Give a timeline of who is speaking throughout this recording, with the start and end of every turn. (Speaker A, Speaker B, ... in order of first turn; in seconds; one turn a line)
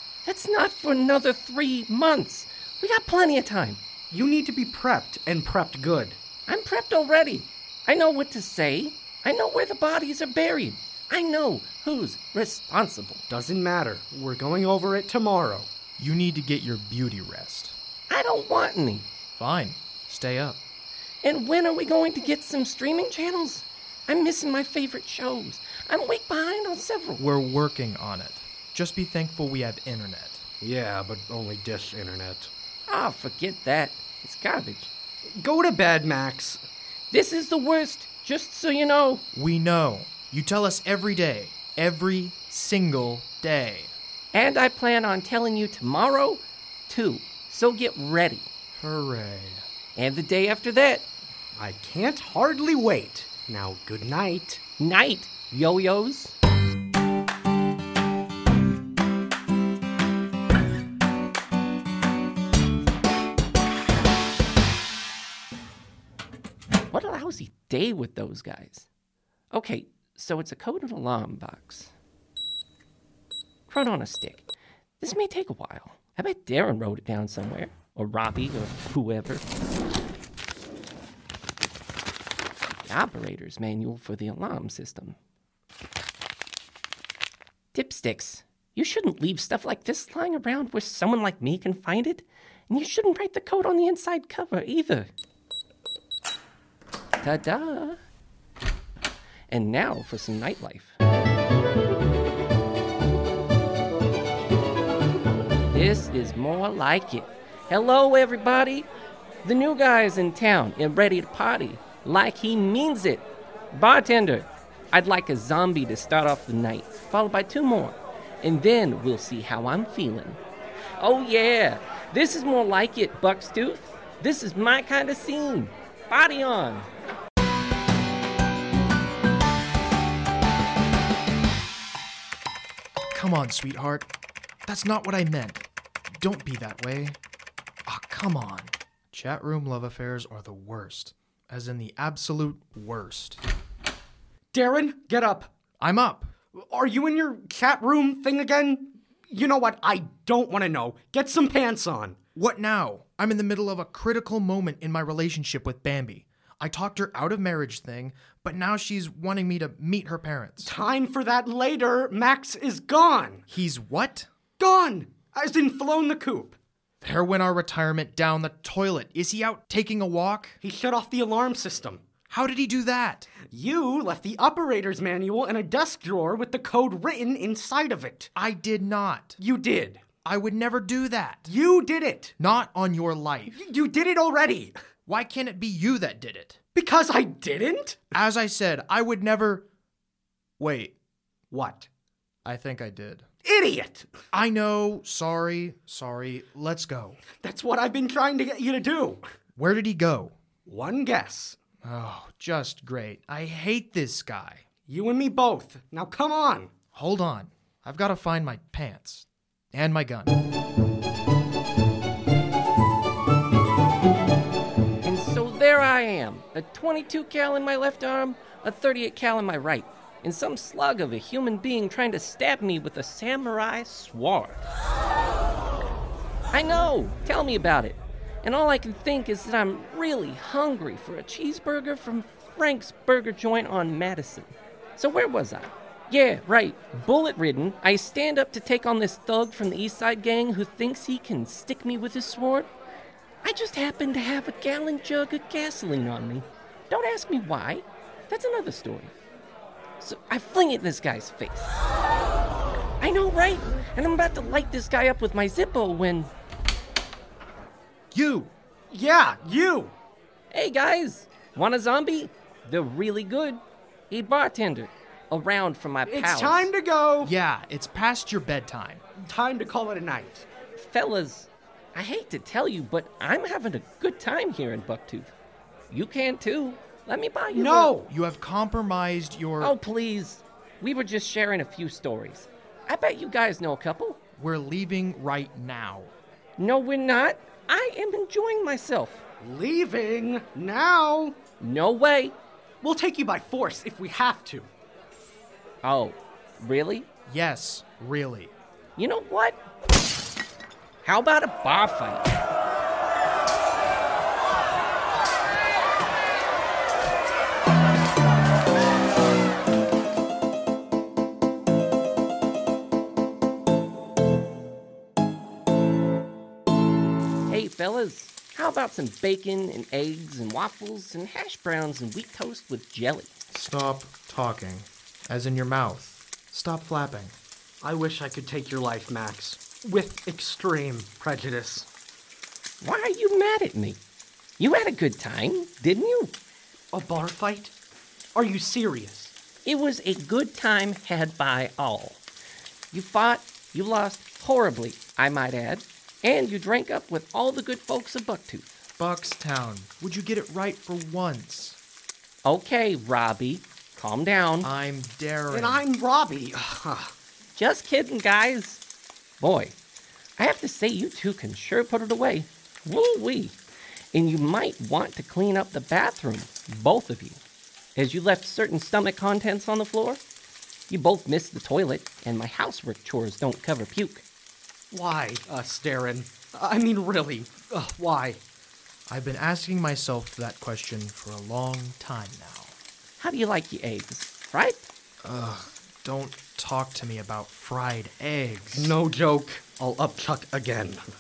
Speaker A: 0.2-3.8
Speaker B: 4.1-6.2
Speaker A: 6.5-13.2
Speaker B: 13.3-15.7
Speaker C: 16.0-17.8
Speaker A: 18.1-19.1
Speaker C: 19.4-20.6
Speaker A: 21.2-27.3
Speaker C: 27.2-30.4
Speaker B: 30.6-32.5
Speaker A: 32.9-34.9
Speaker B: 35.4-36.6
Speaker A: 37.1-39.2
Speaker C: 39.3-43.9
Speaker A: 44.3-48.5
Speaker C: 48.7-49.6
Speaker A: 50.0-51.1
Speaker B: 51.6-54.6
Speaker A: 54.8-56.4
Speaker A: 66.9-68.9
Speaker A: 69.5-71.9
Speaker A: 73.7-74.5
Speaker A: 75.0-79.5
Speaker A: 82.8-85.2
Speaker A: 87.7-95.1
Speaker A: 97.2-98.0
Speaker A: 99.5-101.0
Speaker A: 105.7-108.9
Speaker A: 109.4-120.4
Speaker A: 121.0-126.9
Speaker C: 133.1-134.1
Speaker C: 134.7-137.2
Speaker C: 137.9-143.4
Speaker B: 144.5-145.5
Speaker C: 145.8-146.3
Speaker B: 146.6-152.2
Speaker C: 152.4-160.7
Speaker B: 160.6-163.4
Speaker C: 163.5-164.3
Speaker B: 164.6-166.6
Speaker C: 167.0-170.6
Speaker B: 170.6-172.0
Speaker C: 172.3-173.3
Speaker B: 173.4-178.3
Speaker C: 178.4-179.4
Speaker B: 179.4-180.0
Speaker C: 180.2-181.5
Speaker B: 181.5-182.3
Speaker C: 182.4-183.7
Speaker B: 183.6-184.7
Speaker C: 185.1-186.6
Speaker B: 186.8-188.1
Speaker C: 188.1-189.7
Speaker C: 190.6-190.9
Speaker B: 191.5-191.9
Speaker C: 192.4-193.3
Speaker B: 193.4-194.1
Speaker C: 194.3-197.2
Speaker B: 197.4-199.2
Speaker C: 199.6-200.4
Speaker B: 200.7-201.6
Speaker C: 201.8-204.6
Speaker B: 204.9-206.7
Speaker C: 206.9-210.4
Speaker A: 215.0-224.7
Speaker A: 226.5-242.7
Speaker A: 243.4-249.1
Speaker A: 250.0-251.7
Speaker A: 253.0-256.3
Speaker C: 258.1-258.5
Speaker B: 258.9-259.9
Speaker A: 260.5-266.7
Speaker B: 266.1-267.3
Speaker C: 267.2-269.0
Speaker B: 269.2-270.5
Speaker A: 270.8-275.3
Speaker A: 275.9-277.9
Speaker B: 277.5-278.1
Speaker C: 278.1-279.8
Speaker A: 279.6-284.2
Speaker C: 284.4-286.1
Speaker A: 286.6-289.2
Speaker B: 289.4-291.4
Speaker A: 291.6-292.4
Speaker B: 292.8-294.7
Speaker A: 295.8-297.1
Speaker C: 297.3-298.5
Speaker A: 299.0-299.6
Speaker A: 301.0-302.3
Speaker A: 317.5-323.3
Speaker C: 323.5-327.4
Speaker B: 327.8-331.9
Speaker A: 332.8-334.0
Speaker A: 334.6-336.3
Speaker B: 336.9-337.7
Speaker B: 338.4-339.3
Speaker A: 339.7-342.2
Speaker A: 342.9-348.8
Speaker C: 349.0-351.8
Speaker A: 352.4-354.7
Speaker C: 354.6-355.9
Speaker B: 355.5-357.1
Speaker A: 357.6-358.8
Speaker A: 359.4-359.8
Speaker A: 360.4-363.6
Speaker A: 364.1-367.4
Speaker A: 368.0-370.2
Speaker A: 370.9-374.2
Speaker B: 374.9-378.4
Speaker C: 379.1-382.8
Speaker A: 383.2-384.9
Speaker C: 385.2-388.9
Speaker B: 388.7-391.0